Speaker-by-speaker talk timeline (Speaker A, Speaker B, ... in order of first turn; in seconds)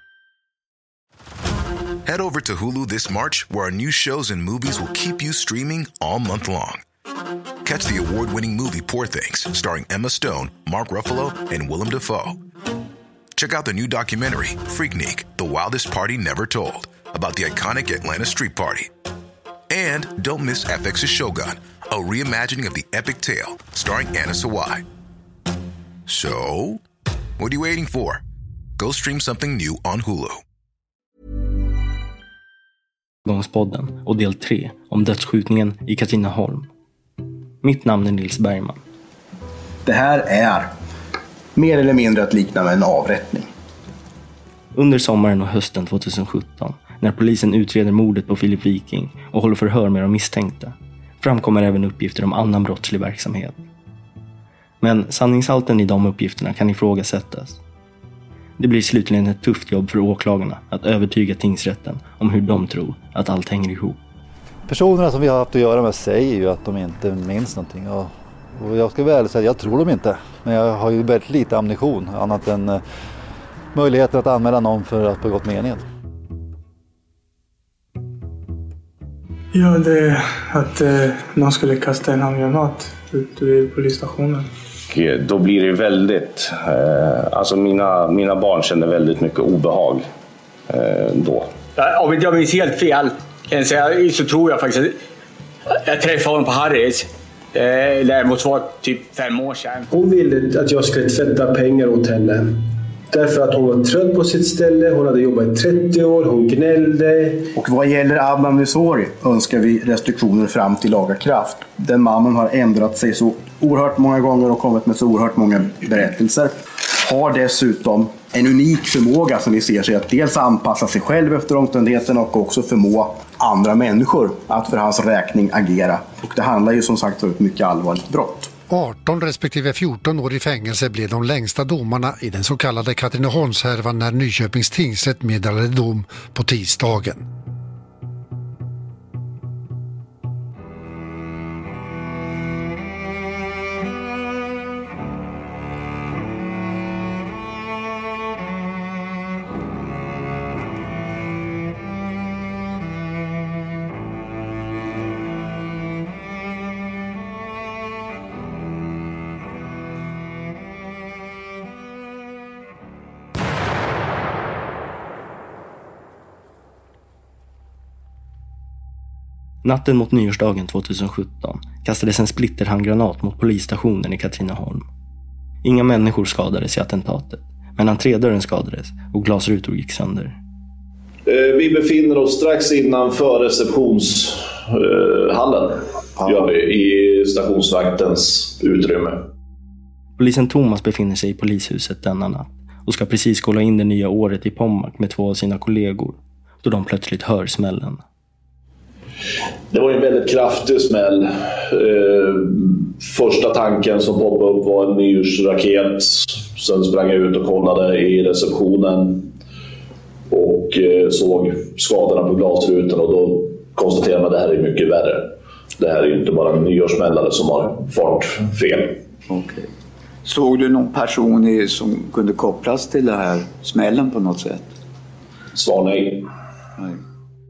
Speaker A: 2.0-6.8, 7.6-12.4, 13.4-18.9, 19.7-24.8, 26.1-26.8, 27.4-28.2, 28.8-30.4
Speaker B: 33.3-36.7, 37.6-38.8, 44.7-53.6, 54.8-57.6, 58.6-64.0, 169.6-174.9, 175.6-180.4, 190.2-198.0
Speaker C: 39.9-40.7, 41.5-43.5, 107.5-128.5
Speaker D: 64.7-72.8, 73.7-75.8
Speaker E: 79.5-84.5
Speaker F: 84.9-90.1, 90.7-91.5
Speaker G: 91.8-95.0, 95.8-99.9
Speaker H: 99.9-107.5
Speaker I: 128.7-137.2
Speaker J: 181.3-189.3, 199.7-209.3, 210.3-219.0, 225.6-226.3
Speaker K: 219.3-219.7, 220.2-224.7